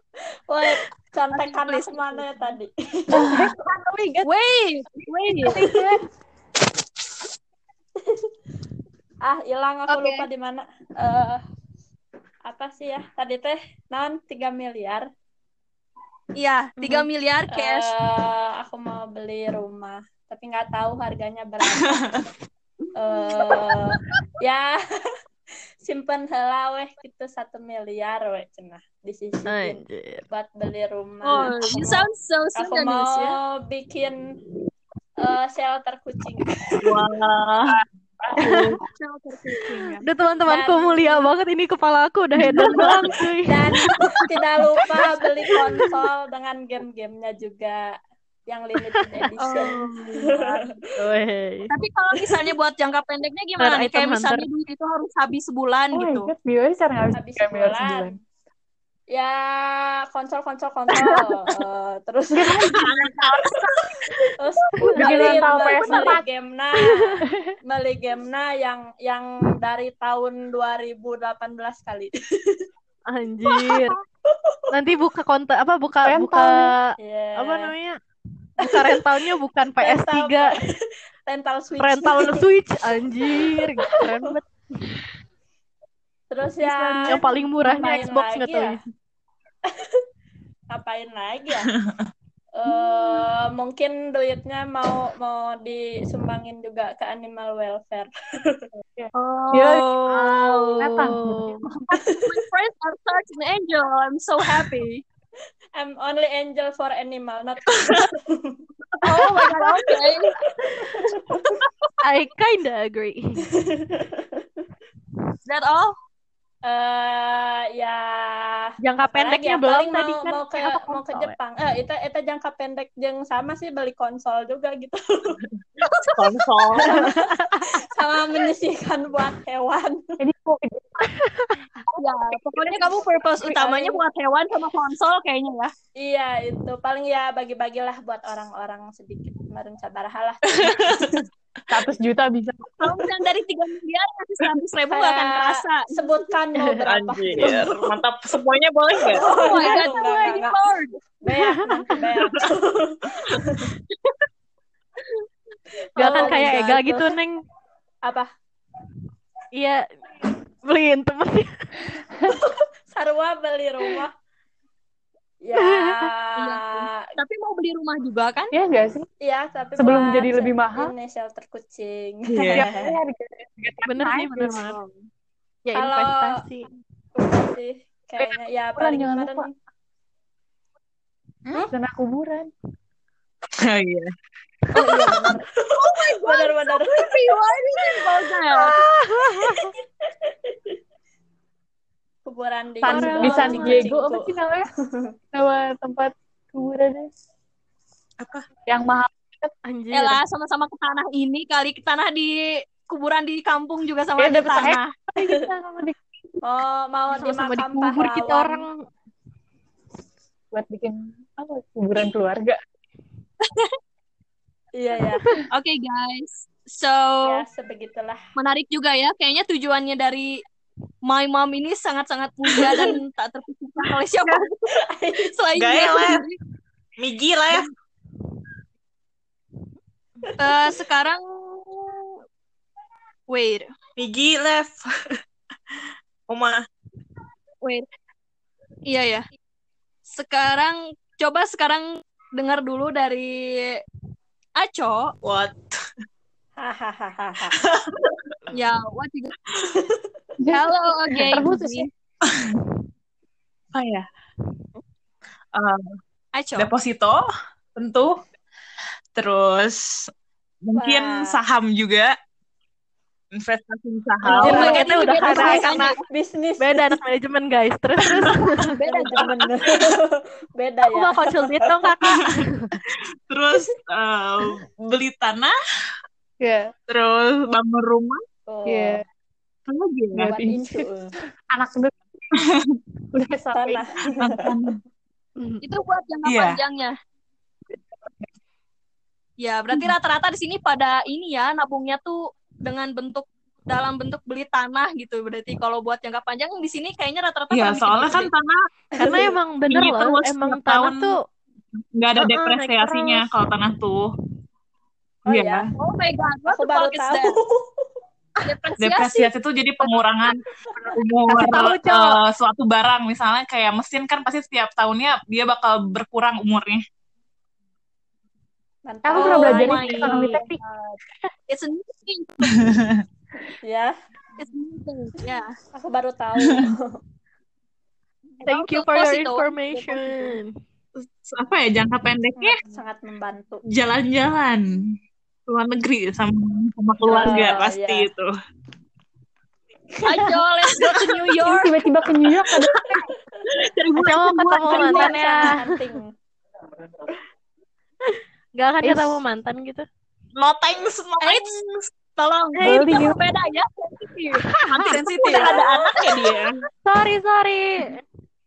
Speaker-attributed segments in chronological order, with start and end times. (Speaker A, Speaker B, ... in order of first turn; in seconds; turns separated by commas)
Speaker A: 0.5-3.4, Speaker B: 1.3-2.3, Speaker C: 3.1-4.3, Speaker B: 4.2-5.7, Speaker C: 5.5-6.0, Speaker A: 9.2-11.4, Speaker B: 9.9-10.2, Speaker A: 12.4-15.1, Speaker B: 16.4-17.9, Speaker A: 17.5-22.3, Speaker A: 23.0-24.8, Speaker D: 23.3-23.7, Speaker A: 25.8-34.4, Speaker E: 29.5-30.2, Speaker B: 31.2-33.4, Speaker A: 35.2-37.0, Speaker D: 36.8-37.8, Speaker C: 37.7-38.7, Speaker E: 38.4-38.8, Speaker D: 38.4-38.8, Speaker B: 38.9-40.0, Speaker E: 40.0-43.9, Speaker A: 40.5-41.3, Speaker D: 42.4-43.1, Speaker B: 42.6-43.1, Speaker A: 43.4-47.9, Speaker D: 43.9-44.3, Speaker E: 45.5-45.9, Speaker A: 48.5-50.8, Speaker B: 49.4-50.7, Speaker E: 51.0-51.7, Speaker B: 51.7-56.3, Speaker E: 53.6-54.5, Speaker C: 55.9-58.2, Speaker A: 57.1-58.2, Speaker A: 59.1-62.5, Speaker C: 62.4-64.1, Speaker D: 62.7-64.2, Speaker A: 64.4-72.7, Speaker B: 64.8-66.1, Speaker C: 65.0-66.2, Speaker E: 66.8-67.1, Speaker E: 73.1-74.0, Speaker A: 74.3-74.6, Speaker E: 74.7-78.0, Speaker C: 76.0-76.8, Speaker A: 77.0-77.7, Speaker E: 78.6-80.6, Speaker A: 78.6-79.3, Speaker A: 79.8-82.5, Speaker E: 81.8-84.9, Speaker A: 83.1-84.3, Speaker A: 86.3-88.8, Speaker B: 86.6-87.2, Speaker E: 87.1-88.8, Speaker A: 90.7-91.7, Speaker D: 91.7-92.0, Speaker A: 92.5-98.7, Speaker B: 92.8-93.2, Speaker C: 98.8-100.0, Speaker B: 99.1-100.7, Speaker E: 100.1-101.6, Speaker C: 100.8-101.8, Speaker B: 102.0-105.0, Speaker A: 102.0-102.3, Speaker A: 105.8-108.6, Speaker D: 107.7-108.1, Speaker B: 109.0-110.3, Speaker A: 109.6-109.9, Speaker A: 110.6-111.5, Speaker E: 112.0-113.5, Speaker A: 113.5-114.4, Speaker B: 115.5-116.0, Speaker A: 116.6-125.4, Speaker E: 118.8-121.4, Speaker B: 125.8-126.2, Speaker D: 126.2-127.1, Speaker A: 126.8-130.2, Speaker E: 127.0-127.6, Speaker C: 130.2-131.1, Speaker E: 131.1-131.6, Speaker C: 131.9-134.0, Speaker B: 131.9-135.7, Speaker A: 136.0-141.3, Speaker D: 140.6-141.1, Speaker C: 141.7-142.9, Speaker B: 142.8-145.9, Speaker A: 144.9-148.0, Speaker D: 146.8-149.3, Speaker A: 149.0-150.6, Speaker B: 149.1-151.0, Speaker A: 151.2-153.7, Speaker E: 151.3-151.9, Speaker D: 152.1-152.5, Speaker A: 156.0-157.2, Speaker E: 156.0-157.4, Speaker A: 158.0-158.3, Speaker E: 159.5-161.9, Speaker A: 162.2-164.1, Speaker A: 165.4-167.1, Speaker E: 165.5-166.1, Speaker B: 166.4-168.5, Speaker C: 168.5-169.1, Speaker A: 169.2-173.0, Speaker C: 169.8-170.9, Speaker D: 172.3-172.7, Speaker C: 172.5-174.8, Speaker E: 173.9-174.8, Speaker B: 174.4-175.1, Speaker E: 175.6-176.7, Speaker A: 175.7-176.4, Speaker A: 177.1-179.5, Speaker C: 178.2-179.5, Speaker C: 181.7-182.5, Speaker D: 183.6-184.1, Speaker D: 184.8-185.2, Speaker B: 184.8-185.3, Speaker A: 184.8-187.1, Speaker D: 185.8-186.8, Speaker B: 186.9-188.8, Speaker E: 188.6-189.7, Speaker A: 189.4-189.8, Speaker A: 192.2-194.3, Speaker C: 192.8-194.7, Speaker E: 192.8-193.9, Speaker A: 194.9-195.1, Speaker C: 195.3-197.1, Speaker D: 198.2-198.4, Speaker C: 198.7-199.5, Speaker E: 199.7-200.2, Speaker B: 199.9-204.9, Speaker C: 204.2-206.0, Speaker A: 206.4-208.6, Speaker E: 207.1-208.8, Speaker C: 210.5-212.6, Speaker B: 213.4-213.7, Speaker A: 214.8-215.2, Speaker B: 215.5-217.4, Speaker A: 217.2-218.2, Speaker B: 218.4-220.4, Speaker B: 221.1-226.4, Speaker D: 222.6-222.9, Speaker A: 224.8-225.3, Speaker D: 225.6-226.2, Speaker D: 227.0-227.7, Speaker B: 230.4-232.1, Speaker B: 233.3-233.7, Speaker D: 234.0-234.9, Speaker D: 236.3-236.6, Speaker B: 238.9-239.2, Speaker B: 240.1-243.8, Speaker B: 244.6-245.1, Speaker D: 245.2-245.8, Speaker A: 246.6-247.6, Speaker D: 247.5-248.5, Speaker B: 248.5-249.3, Speaker A: 249.7-250.1, Speaker C: 250.4-251.9, Speaker B: 250.5-251.9, Speaker D: 252.3-252.6, Speaker D: 253.7-254.1, Speaker D: 255.6-255.8, Speaker B: 256.4-256.7, Speaker D: 256.6-257.2, Speaker D: 257.8-258.2, Speaker D: 259.1-260.1, Speaker D: 260.6-262.1, Speaker A: 260.8-261.4, Speaker D: 263.3-265.8, Speaker E: 264.2-265.9, Speaker A: 264.3-267.0, Speaker B: 264.4-266.0, Speaker E: 266.6-268.7, Speaker B: 268.6-269.3, Speaker A: 268.7-271.7, Speaker D: 269.2-269.9, Speaker E: 270.9-272.7, Speaker D: 272.0-272.3, Speaker D: 272.9-275.5, Speaker C: 276.4-276.7, Speaker D: 276.9-278.2, Speaker A: 278.5-279.0, Speaker C: 278.6-279.0, Speaker D: 279.7-280.3, Speaker C: 280.1-280.9, Speaker A: 280.2-281.1, Speaker C: 281.5-282.2, Speaker D: 282.4-282.8, Speaker C: 283.1-283.9, Speaker A: 283.5-284.5, Speaker D: 284.1-284.8, Speaker E: 285.4-285.6, Speaker B: 285.6-286.9, Speaker D: 286.2-286.6, Speaker B: 289.4-298.3, Speaker D: 297.5-298.6, Speaker E: 299.0-301.2, Speaker A: 299.0-299.3, Speaker D: 299.7-301.2, Speaker D: 301.8-304.1, Speaker E: 302.2-303.3, Speaker A: 305.3-305.6, Speaker D: 305.3-305.7, Speaker B: 305.8-307.4, Speaker A: 306.5-307.9, Speaker B: 308.4-309.3, Speaker D: 308.8-316.8, Speaker A: 310.8-312.1, Speaker B: 311.3-311.9, Speaker A: 318.9-321.0, Speaker C: 319.1-320.6, Speaker B: 319.1-320.5, Speaker B: 321.5-322.7, Speaker D: 322.5-323.0, Speaker A: 323.6-323.9, Speaker B: 324.4-325.5, Speaker A: 325.7-327.0, Speaker B: 328.4-329.5, Speaker E: 328.4-330.6, Speaker A: 329.7-330.4, Speaker D: 331.0-332.6, Speaker A: 332.4-333.6, Speaker D: 333.7-334.8, Speaker D: 335.5-338.3, Speaker A: 337.0-338.1, Speaker B: 340.0-341.8, Speaker D: 340.7-341.4, Speaker C: 341.4-343.0, Speaker D: 342.1-342.9, Speaker D: 343.5-344.9, Speaker E: 344.0-345.6, Speaker B: 344.0-345.6, Speaker A: 344.6-346.1, Speaker E: 348.1-349.9, Speaker C: 348.8-349.2, Speaker D: 350.4-351.9, Speaker B: 351.2-356.4, Speaker C: 352.6-353.2, Speaker D: 352.6-353.1, Speaker E: 354.4-354.9, Speaker D: 354.9-356.6, Speaker A: 355.0-356.3, Speaker E: 356.9-358.0